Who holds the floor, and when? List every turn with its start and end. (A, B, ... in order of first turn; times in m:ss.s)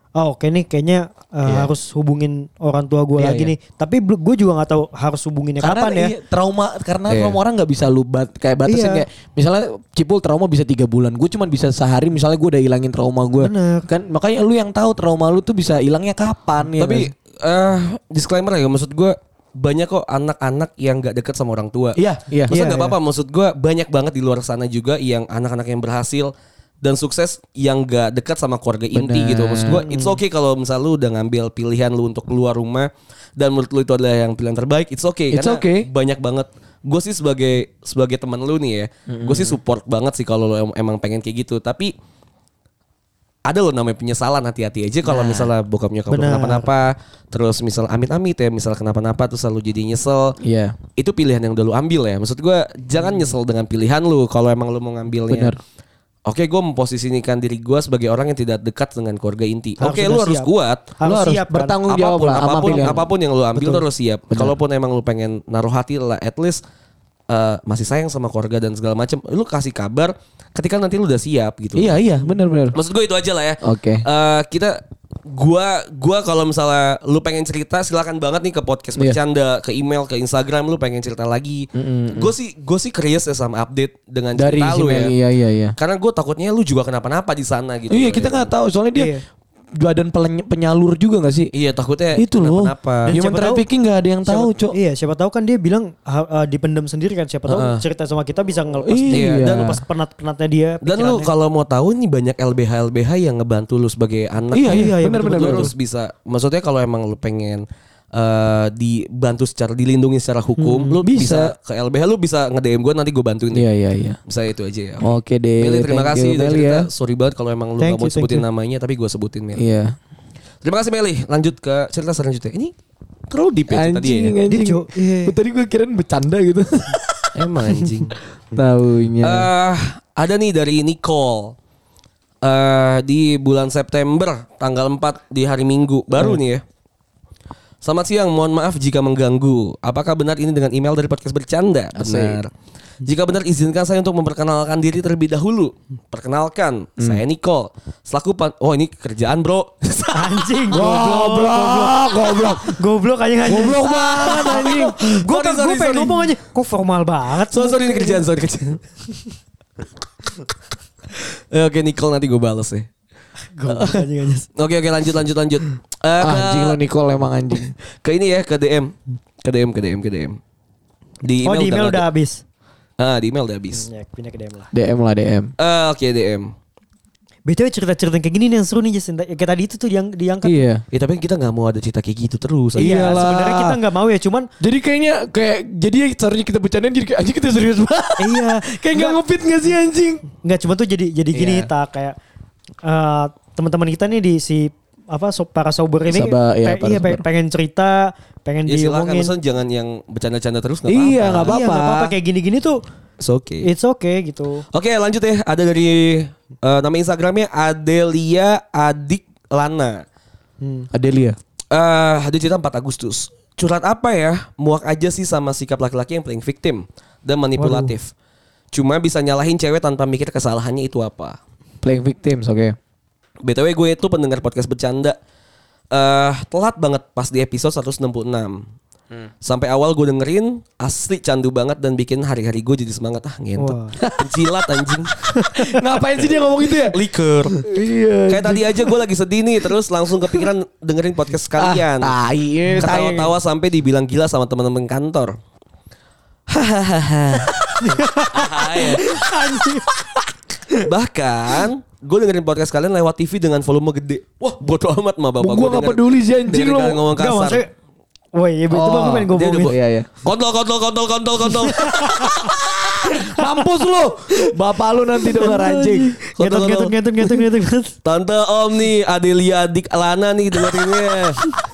0:00.2-0:06.1 A
0:01.4-0:01.7 B
0:03.2-0:03.5 B
0:05.6-0:17.1 B
0:07.1-0:07.4 C
0:08.6-0:09.0 A
0:13.4-0:13.9 A
0:16.8-0:22.0 C
0:22.0-0:22.5 B
0:22.5-0:41.9 C
0:22.5-0:23.0 A
0:28.9-0:29.8 B
0:29.7-0:30.2 A
0:35.3-0:35.9 B
0:39.1-0:39.6 B
0:43.4-0:50.4 C
0:46.1-0:46.7 A
0:50.4-0:50.8 B
0:51.0-0:55.5 C
0:55.3-0:55.6 B
0:56.2-1:00.9 C
0:59.8-1:00.5 A
1:01.0-1:01.8 A
1:01.0-1:03.0 B
1:01.9-1:06.6 C
1:04.3-1:04.6 B
1:07.3-1:12.0 C
1:11.8-1:12.8 B
1:12.7-1:25.1 C
1:13.6-1:14.0 B
1:21.7-1:22.3 B
1:24.4-1:25.7 B
1:25.8-1:28.5 C
1:27.9-1:29.1 B
1:28.9-1:29.2 A
1:29.8-1:31.5 B
1:31.5-1:33.1 C
1:32.2-1:34.8 B
1:33.0-1:33.6 A
1:34.2-1:41.3 A
1:37.5-1:37.8 C
1:38.8-1:39.8 B
1:39.1-1:39.8 C
1:40.8-1:53.6 C
1:44.5-1:45.7 B
1:44.6-1:45.7 A
1:50.6-1:51.0 A
1:51.0-1:51.5 B
1:53.5-1:54.2 B
1:54.3-1:55.1 C
1:55.0-1:56.9 B
1:55.6-1:59.6 C
1:57.8-1:58.4 A
1:59.6-2:00.0 B
2:00.6-2:02.7 C
2:03.3-2:04.3 C
2:03.7-2:07.3 B
2:04.5-2:05.3 A
2:07.3-2:08.2 C
2:08.5-2:09.5 B
2:09.2-2:11.6 C
2:12.4-2:16.6 C
2:17.8-2:22.5 C
2:21.9-2:22.4 B
2:23.0-2:30.6 C
2:30.1-2:38.2 A
2:30.7-2:32.8 B
2:33.4-2:34.9 B
2:34.5-2:36.3 C
2:37.5-2:38.8 C
2:41.5-2:42.9 C
2:43.5-2:44.5 A
2:43.7-2:46.8 C
2:46.2-2:47.7 B
2:47.9-2:50.4 C
2:51.2-2:52.0 C
2:51.4-2:52.4 A
2:53.0-2:53.8 C
2:53.8-2:54.7 A
2:54.7-2:55.5 B
2:55.6-2:56.5 C
2:57.4-3:00.6 A
3:00.4-3:00.8 B
3:00.9-3:03.2 C
3:02.8-3:03.8 B
3:02.8-3:04.5 A
3:04.6-3:10.2 B
3:08.2-3:09.2 A
3:10.4-3:12.2 A
3:12.8-3:19.3 A
3:16.1-3:17.2 B
3:18.7-3:21.6 C
3:20.9-3:22.1 B
3:21.5-3:22.8 A
3:23.2-3:23.7 C
3:23.6-3:24.6 A
3:24.7-3:30.0 C
3:30.6-3:30.9 A
3:30.9-3:31.4 B
3:31.7-3:38.1 C
3:37.6-3:37.9 A
3:38.7-3:41.4 C
3:41.8-3:42.8 B
3:43.4-3:45.2 C
3:45.9-3:48.6 C
3:49.4-3:55.2 C
3:53.6-3:54.0 A
3:54.0-3:54.6 B
3:55.3-3:55.8 A
3:55.5-3:57.0 B
3:56.8-3:57.6 C
3:57.6-3:59.0 B
3:58.3-4:02.1 C
4:01.6-4:03.3 B
4:02.7-4:03.0 A
4:02.8-4:05.4 C
4:06.5-4:07.7 C
4:07.8-4:09.9 A
4:08.3-4:09.2 C
4:10.8-4:17.6 C
4:15.4-4:17.0 B
4:17.2-4:17.7 A
4:18.3-4:19.7 A
4:18.7-4:20.1 B
4:19.3-4:23.1 C
4:21.6-4:22.5 A
4:23.1-4:23.6 A
4:23.2-4:26.1 B
4:25.2-4:27.9 A
4:26.3-4:26.9 C
4:28.0-4:31.4 C